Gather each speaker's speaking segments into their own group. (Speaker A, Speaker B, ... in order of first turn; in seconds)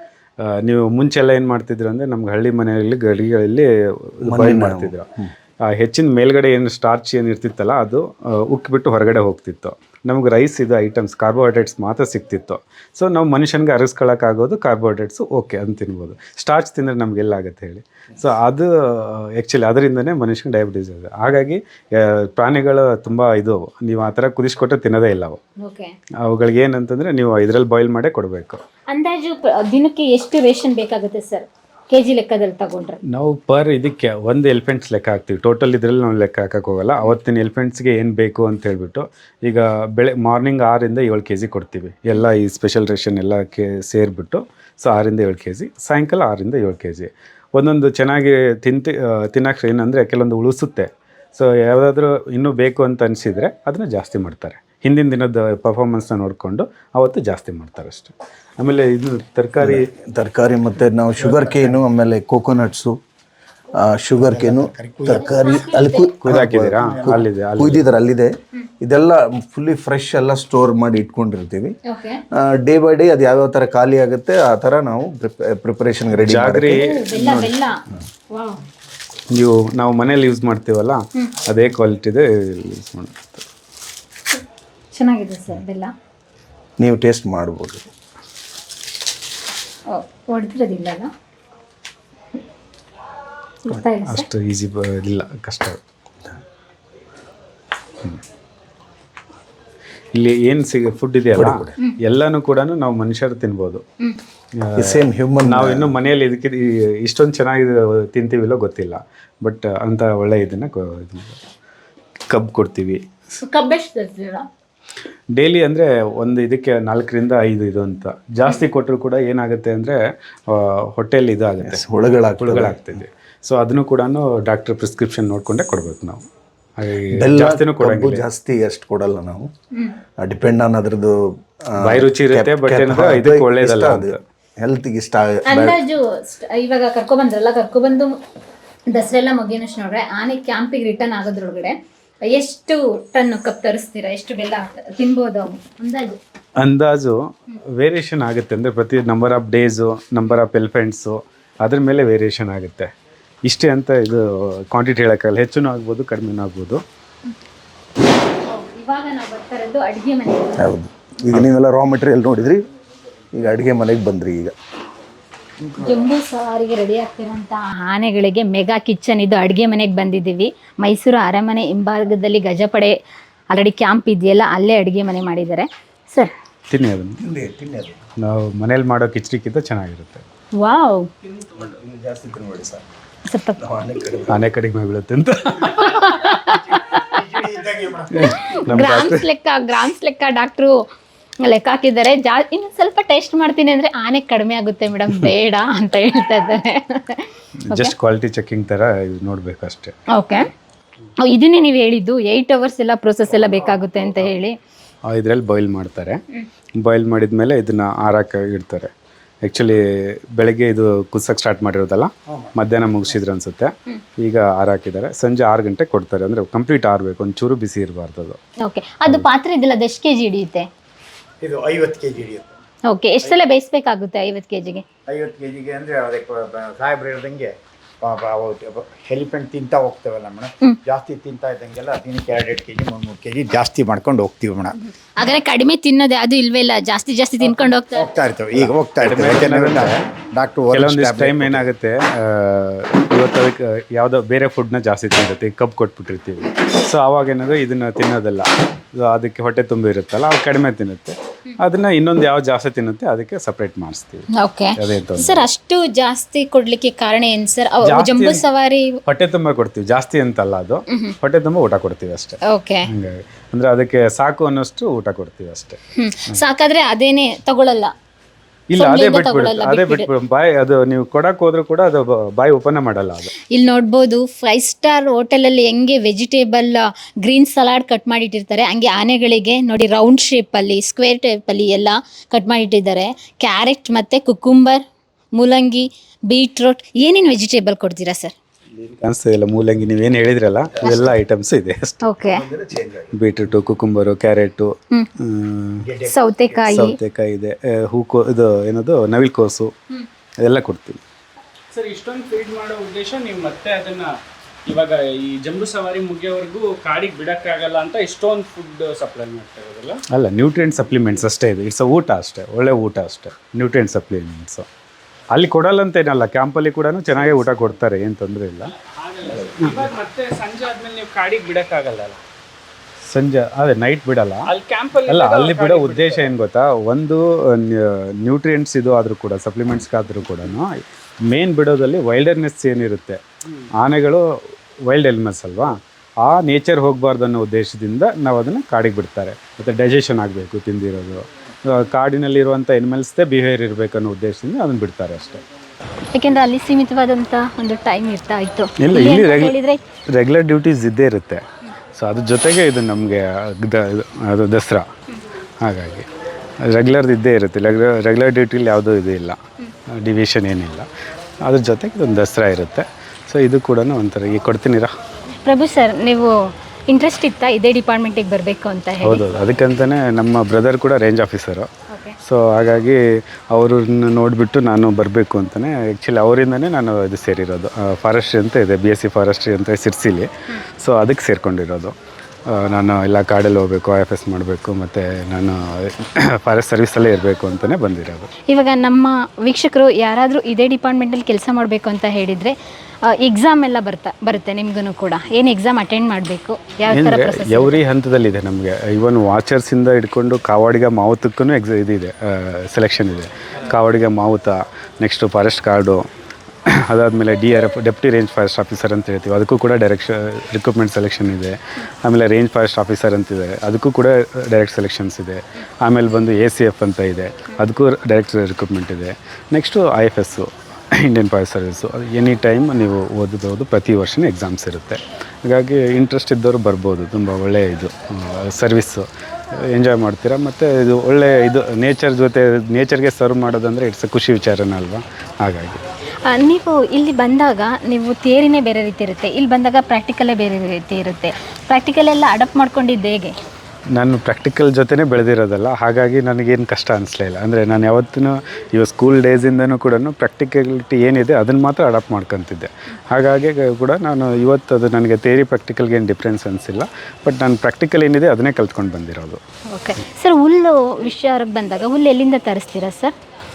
Speaker A: 0.4-5.1, 5.6-25.4, 26.2-28.6, 33.1-59.9, 66.2-67.9, 76.2-77.0, 79.3-83.4, 94.0-95.8, 100.1-103.8, 104.6-111.4, 112.3-113.0, 115.3-121.8, 122.4-126.2, 126.8-128.3, 131.8-134.2, 146.6-152.9, 153.4-156.8, 176.7-177.2, 178.2-180.2, 184.3-186.5, 188.1-189.2, 197.7-200.0, 205.1-206.2, 206.8-208.9, 209.4-218.4, 238.5-240.0, 240.7-255.5, 257.8-258.5, 259.1-265.8, 268.7-273.3, 289.0-292.1, 293.1-296.0, 296.7-299.7, 300.4-301.0, 310.1-314.7, 315.3-318.7, 323.0-324.5, 325.1-330.7, 331.2-333.2, 333.8-334.2, 334.9-345.4, 348.8-349.5, 350.1-354.9, 355.6-356.1, 356.7-359.4, 359.9-360.9, 361.4-364.9, 369.0-371.7, 372.2-373.0, 373.5-381.9, 382.5-388.3, 396.9-406.1, 406.7-435.8, 443.9-459.4
Speaker B: 4.2-5.3, 59.6-63.0, 63.8-71.8, 72.3-77.5, 86.8-87.9, 101.3-101.7, 104.8-106.0, 121.6-123.0, 127.1-129.5, 130.2-131.2, 131.7-135.8, 160.6-162.6, 163.3-164.5, 177.2-178.0, 181.3-182.8, 183.6-184.4, 187.3-188.2, 292.3-293.1
Speaker C: 25.6-25.9, 28.9-33.0, 65.1-66.2, 71.9-72.2, 77.0-77.7, 78.3-78.6, 84.9-85.9, 89.9-91.1, 93.7-94.3, 113.4-114.5, 135.5-138.2, 138.9-146.2, 158.5-160.7, 165.8-172.9, 173.5-176.3, 180.6-181.1, 183.3-183.6, 185.8-187.3, 188.2-190.8, 191.4-197.9, 200.2-200.4, 201.2-204.6, 218.7-220.7, 222.9-224.8, 234.8-238.1, 254.4-258.9, 262.5-262.9, 266.0-267.9, 268.8-270.1, 273.5-284.8, 285.4-288.4, 292.0-292.5, 296.0-297.0, 346.1-349.8, 365.3-369.2, 371.9-372.2, 388.5-397.8, 436.3-443.3, 459.7-463.1
Speaker D: 61.2-61.7, 64.2-65.3, 221.4-222.6, 225.1-234.7, 237.4-241.7
Speaker E: 301.7-304.1, 304.7-310.0, 319.1-322.2, 324.5-326.3